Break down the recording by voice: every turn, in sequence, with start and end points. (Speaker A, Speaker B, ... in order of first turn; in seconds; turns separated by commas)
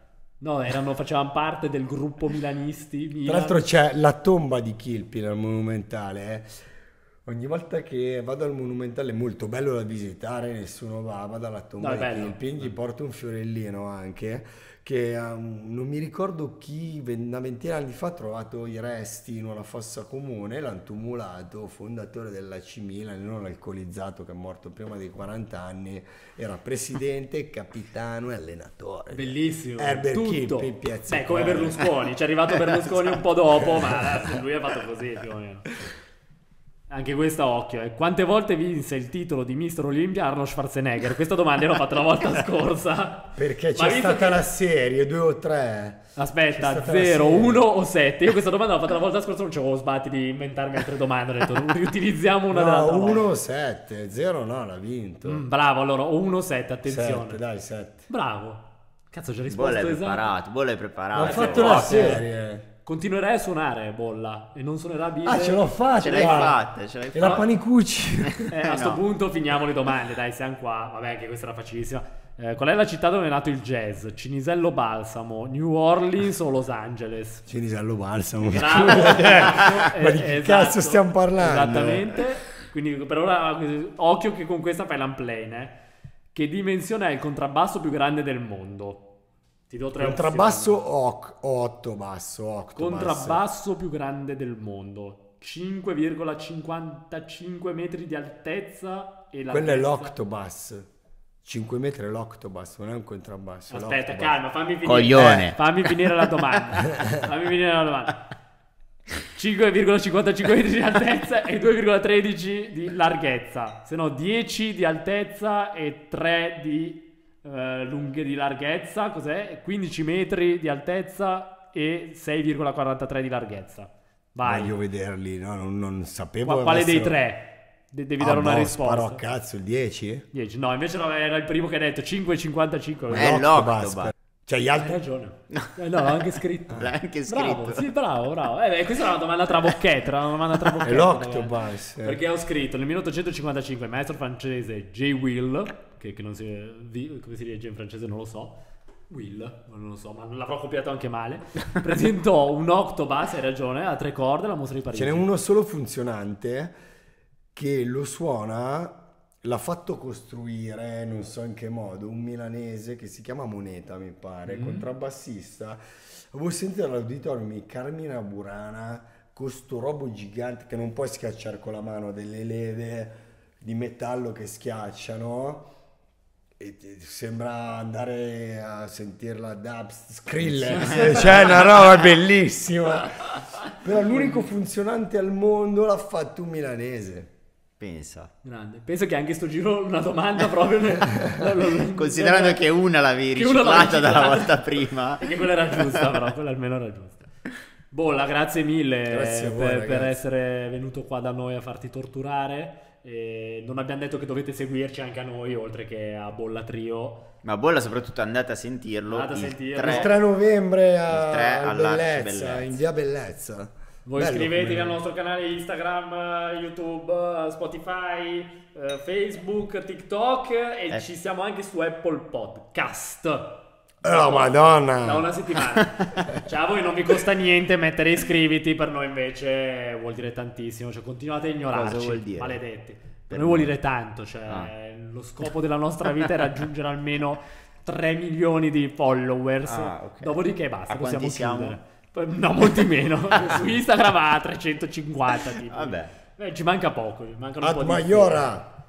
Speaker A: 0.4-3.6, Speaker B: 3.2-6.6, Speaker B: 7.3-31.9, Speaker A: 11.8-12.4, Speaker A: 29.1-35.7, Speaker B: 33.8-34.4, Speaker A: 36.9-44.4, Speaker B: 43.4-47.6, Speaker A: 46.2-53.2, Speaker B: 52.5-55.5, Speaker A: 55.2-57.4, Speaker B: 56.9-58.1, Speaker A: 58.1-60.3, Speaker C: 59.5-62.2, Speaker B: 61.1-62.7, Speaker A: 61.2-62.2, Speaker A: 62.9-66.6, Speaker B: 65.2-68.5, Speaker C: 66.0-67.5, Speaker A: 67.2-67.4, Speaker C: 68.2-69.0, Speaker A: 68.5-77.5, Speaker B: 77.5-82.2, Speaker A: 78.5-85.8, Speaker A: 86.3-89.0, Speaker A: 89.7-90.8, Speaker B: 90.0-93.4, Speaker A: 92.8-100.1, Speaker B: 99.5-100.9, Speaker B: 101.4-104.4, Speaker A: 103.7-108.2, Speaker C: 104.8-106.0, Speaker B: 105.2-105.4, Speaker A: 109.2-124.8, Speaker B: 124.4-127.2, Speaker A: 126.5-129.2, Speaker B: 128.2-130.3, Speaker A: 130.3-133.4, Speaker B: 133.1-135.0, Speaker C: 133.1-134.1, Speaker A: 134.8-148.6, Speaker C: 135.5-136.2, Speaker C: 136.7-137.9, Speaker B: 140.8-142.2, Speaker A: 149.1-155.3, Speaker B: 154.9-156.7, Speaker B: 157.5-175.7, Speaker A: 164.4-164.9, Speaker B: 176.6-187.3, Speaker A: 180.7-181.6, Speaker C: 187.8-188.3, Speaker A: 188.4-192.6, Speaker C: 191.9-196.1, Speaker A: 193.3-197.3, Speaker A: 197.9-207.2, Speaker B: 199.1-200.2, Speaker C: 207.4-210.1, Speaker A: 209.1-210.1, Speaker B: 209.8-215.0, Speaker C: 211.1-212.8, Speaker A: 214.1-248.6, Speaker B: 224.0-225.3, Speaker C: 231.7-232.6, Speaker C: 233.3-233.8, Speaker C: 239.7-240.4, Speaker C: 240.9-241.8, Speaker C: 243.3-243.6, Speaker C: 245.7-246.1, Speaker B: 247.6-248.7